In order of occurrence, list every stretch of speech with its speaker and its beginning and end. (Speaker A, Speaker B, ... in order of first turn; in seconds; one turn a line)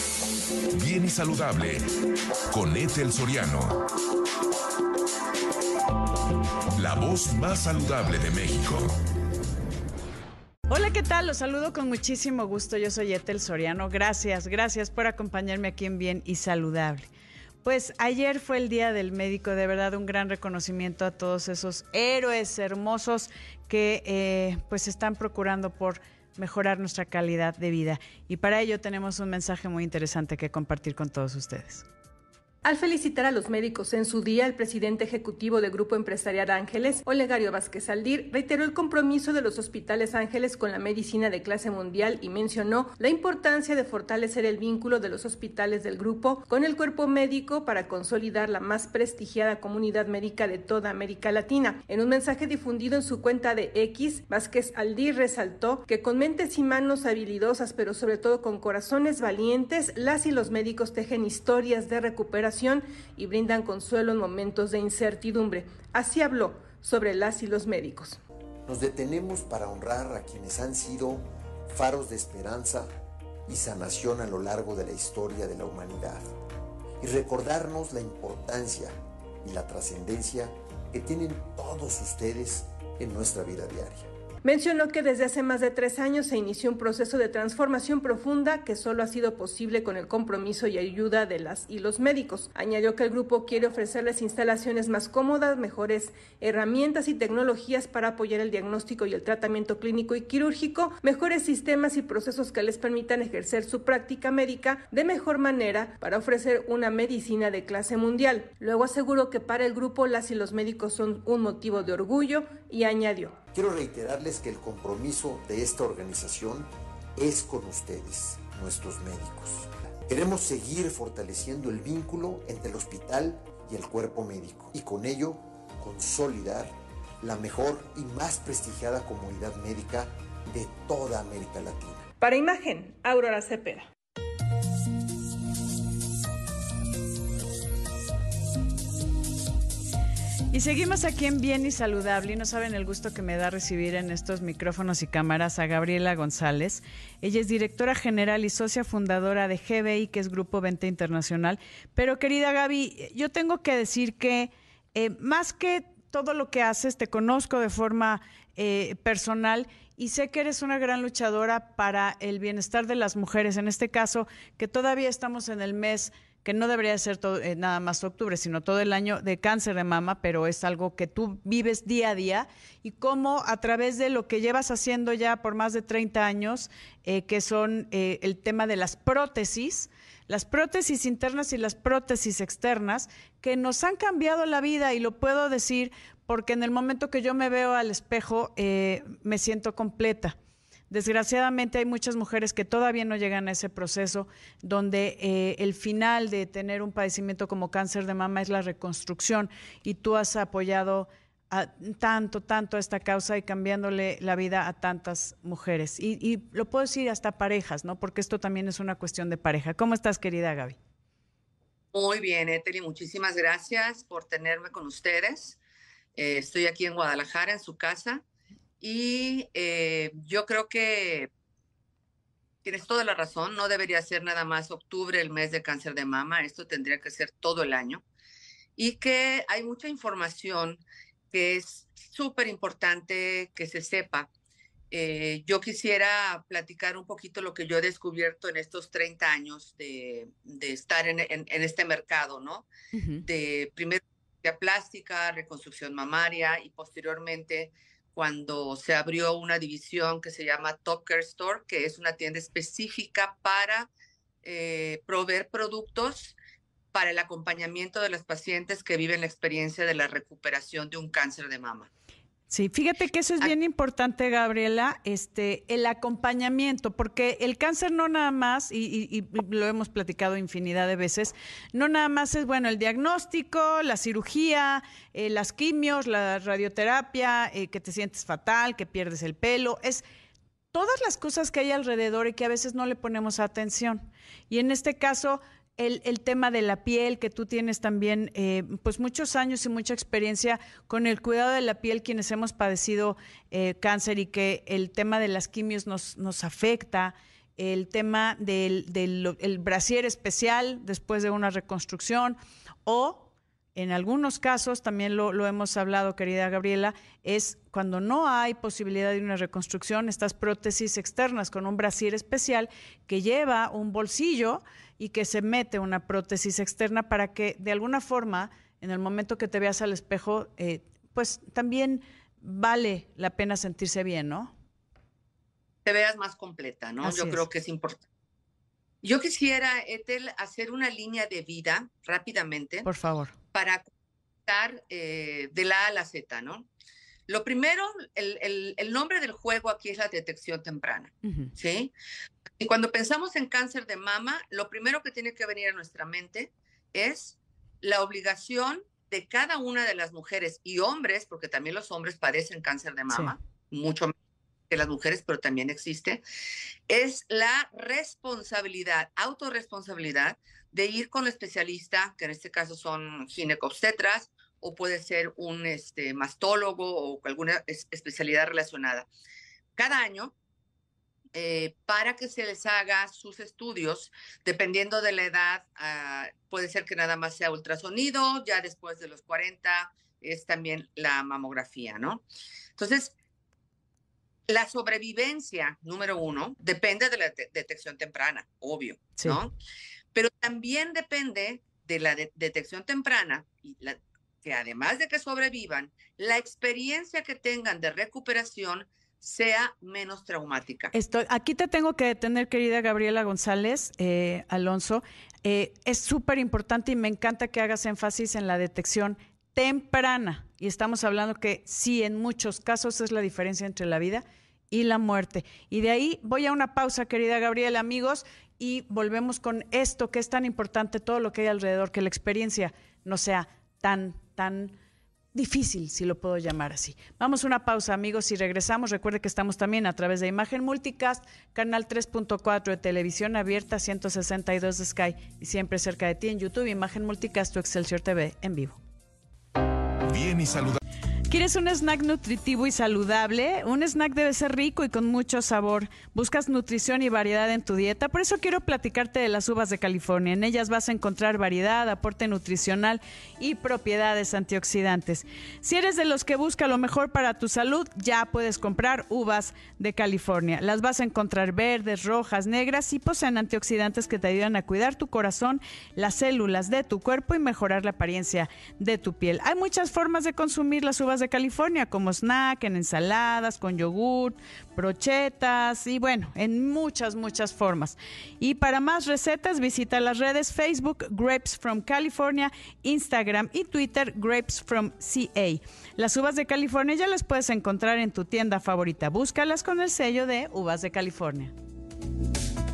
Speaker A: 0.8-1.8
Speaker A: 2.5-3.8
Speaker A: 6.8-8.9
Speaker B: 10.7-17.1
Speaker B: 17.6-31.8
Speaker C: 32.6-68.2
Speaker D: 68.7-72.9
Speaker D: 73.5-76.2
Speaker D: 77.0-84.1
Speaker C: 84.4-113.3
Speaker D: 113.5-132.1
Speaker C: 132.2-133.9
Speaker B: 140.5-190.3
Speaker B: 190.9-210.8
Speaker E: 211.9-215.6
Speaker E: 216.2-218.2
Speaker E: 218.8-221.3
Speaker E: 222.6-228.0
Speaker E: 228.8-234.3
Speaker E: 234.9-242.7
Speaker B: 242.9-243.2
Speaker E: 243.2-253.9
Speaker E: 254.4-256.4
Speaker E: 256.9-261.9
Speaker B: 262.5-280.0
Speaker B: 280.7-324.5
Speaker E: 325.8-328.0
Speaker B: 327.0-327.4
Speaker E: 329.0-332.9
Speaker B: 332.8-333.3
Speaker E: 333.5-333.9
Speaker E: 334.4-336.7
Speaker E: 337.3-341.9
Speaker B: 341.2-341.5
Speaker E: 342.6-354.1
Speaker E: 354.7-356.2
Speaker E: 356.9-369.1
Speaker E: 369.8-370.3
Speaker E: 371.3-382.2
Speaker E: 382.8-383.1
Speaker E: 384.5-389.5
Speaker E: 390.1-400.9
Speaker B: 400.9-424.8
Speaker B: 425.3-438.8
Speaker A: 440.1-440.8
Speaker B: 441.3-491.5